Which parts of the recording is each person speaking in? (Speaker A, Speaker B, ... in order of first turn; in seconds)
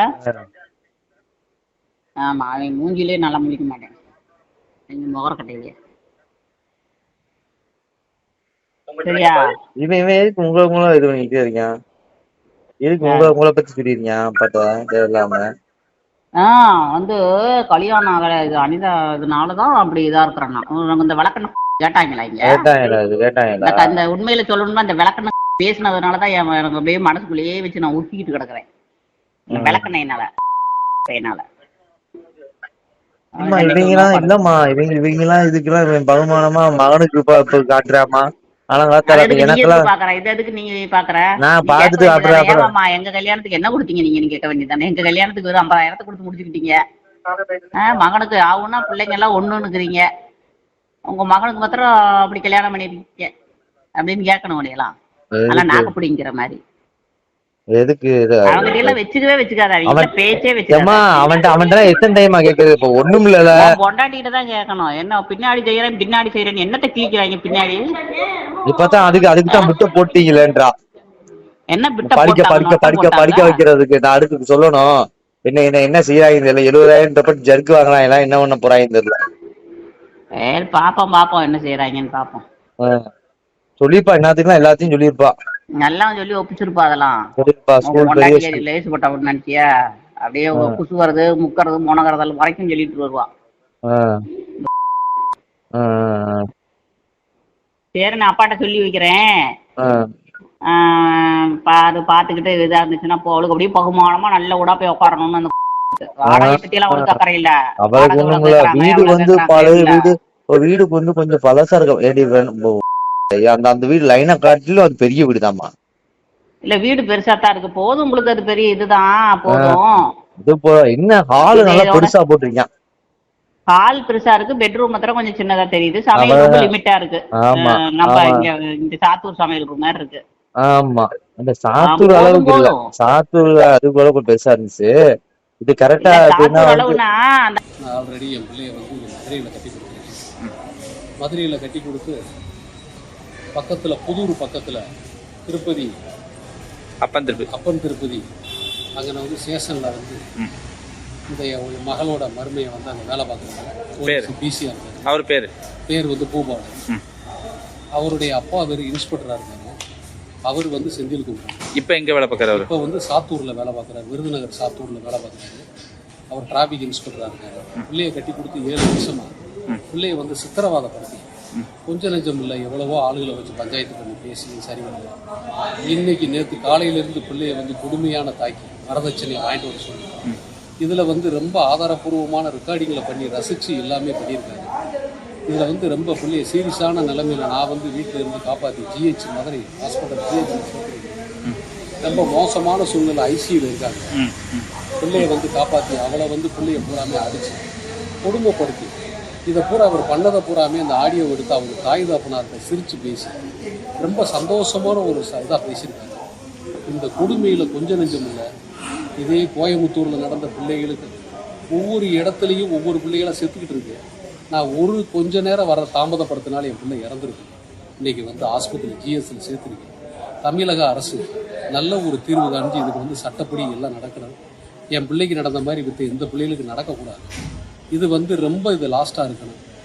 Speaker A: 2.2-3.9, 4.9-5.7, 9.0-9.4, 16.4-17.2, 17.7-22.5, 23.6-28.6, 29.5-30.3, 31.1-31.4, 33.4-34.3, 39.1-46.8, 47.8-50.1, 51.1-53.3, 54.0-54.9, 55.5-56.6, 58.5-61.2, 63.6-67.8, 71.7-73.6, 80.5-82.4, 85.8-87.2, 87.9-89.6, 90.2-93.3, 98.0-99.2, 100.7-110.1, 116.7-120.0, 121.5-122.1, 123.7-130.2, 131.9-132.8, 136.0-137.6
Speaker B: 9.8-11.7, 12.9-15.4, 22.5-24.0, 29.5-29.9, 33.4-39.9, 41.4-42.7, 55.4-55.9, 57.8-59.0, 60.7-63.7, 68.7-70.7, 72.1-74.9, 75.5-79.1, 83.8-85.3, 87.4-88.6, 93.9-94.2, 95.8-96.4, 106.3-107.2, 107.8-112.8, 113.4-115.7, 119.5-119.8, 120.5-122.7, 126.2-126.7, 127.4-128.4, 130.6-134.9, 135.6-137.0
Speaker C: 137.9-140.2, 141.2-142.2, 143.6-144.8, 145.5-145.9, 147.4-148.2, 149.0-150.2, 151.3-155.1, 155.9-156.8, 158.0-159.8, 160.5-161.7, 162.5-165.6, 166.3-169.3, 169.9-171.3, 171.9-175.1, 175.9-180.1, 180.8-184.7, 185.5-191.2, 192.0-194.1, 195.0-197.6, 198.2-198.9, 199.5-203.3, 204.0-206.2, 206.9-208.4, 209.2-211.2, 211.7-214.0, 214.5-219.9, 220.4-221.2, 221.8-224.3, 224.9-227.3, 227.9-229.6
Speaker D: 147.0-147.5, 154.1-154.3, 155.1-155.5, 161.8-162.7, 194.2-195.3